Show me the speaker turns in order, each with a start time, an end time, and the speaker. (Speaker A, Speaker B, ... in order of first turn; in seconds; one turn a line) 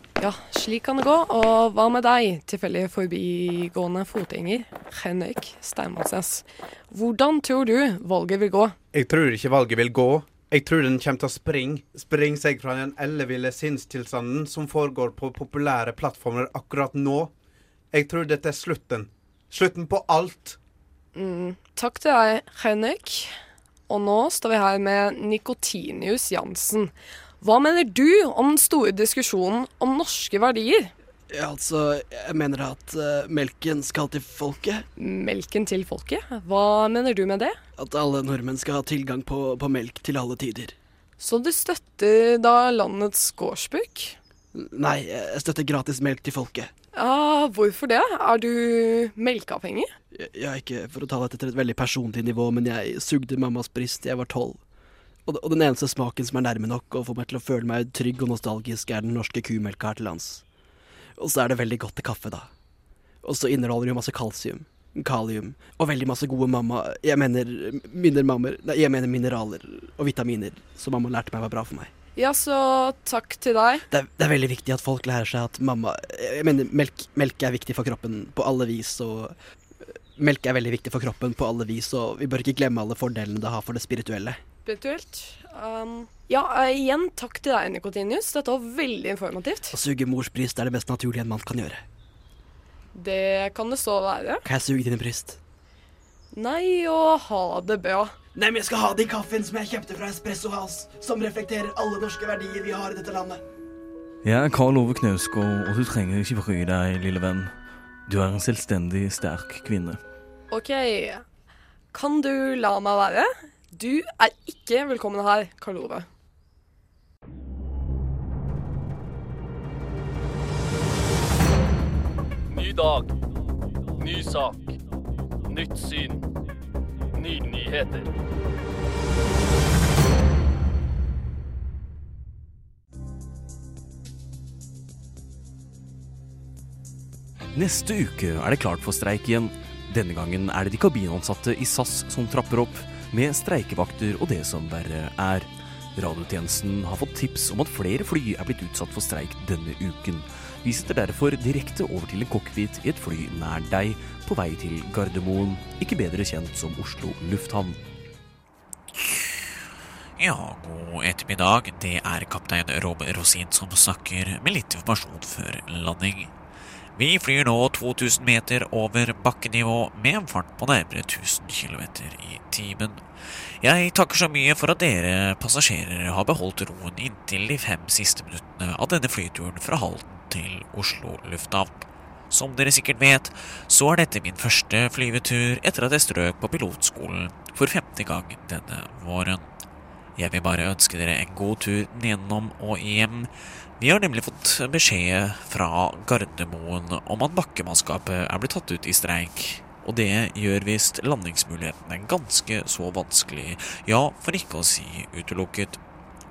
Speaker A: 0.2-8.8
Speaker B: 8.9-17.3
Speaker B: 17.9-20.6
Speaker A: 21.1-23.3
Speaker A: 23.9-30.9
Speaker C: 31.3-34.9
Speaker A: 35.0-37.6
Speaker C: 37.8-40.7
Speaker A: 41.2-44.2
Speaker C: 44.5-46.7
Speaker A: 46.9-49.9
Speaker C: 50.1-54.6
Speaker C: 55.2-60.4
Speaker C: 61.2-62.5
Speaker C: 63.2-71.9
Speaker A: 72.2-73.8
Speaker C: 73.9-79.3
Speaker C: 80.2-84.4
Speaker A: 84.6-89.8
Speaker C: 89.7-91.8
Speaker A: 92.9-94.4
Speaker C: 94.4-95.4
Speaker A: 96.3-98.1
Speaker C: 98.3-103.4
Speaker D: 104.2-107.5
Speaker D: 108.1-110.0
Speaker A: 110.5-111.2
Speaker A: 111.9-116.1
Speaker E: 122.5-123.1
Speaker E: 124.0-124.6
Speaker E: 125.5-126.2
Speaker E: 127.2-128.1
Speaker D: 137.5-157.8
Speaker F: 160.2-166.3
Speaker F: 167.0-173.0
Speaker F: 173.6-189.4
Speaker F: 190.2-205.8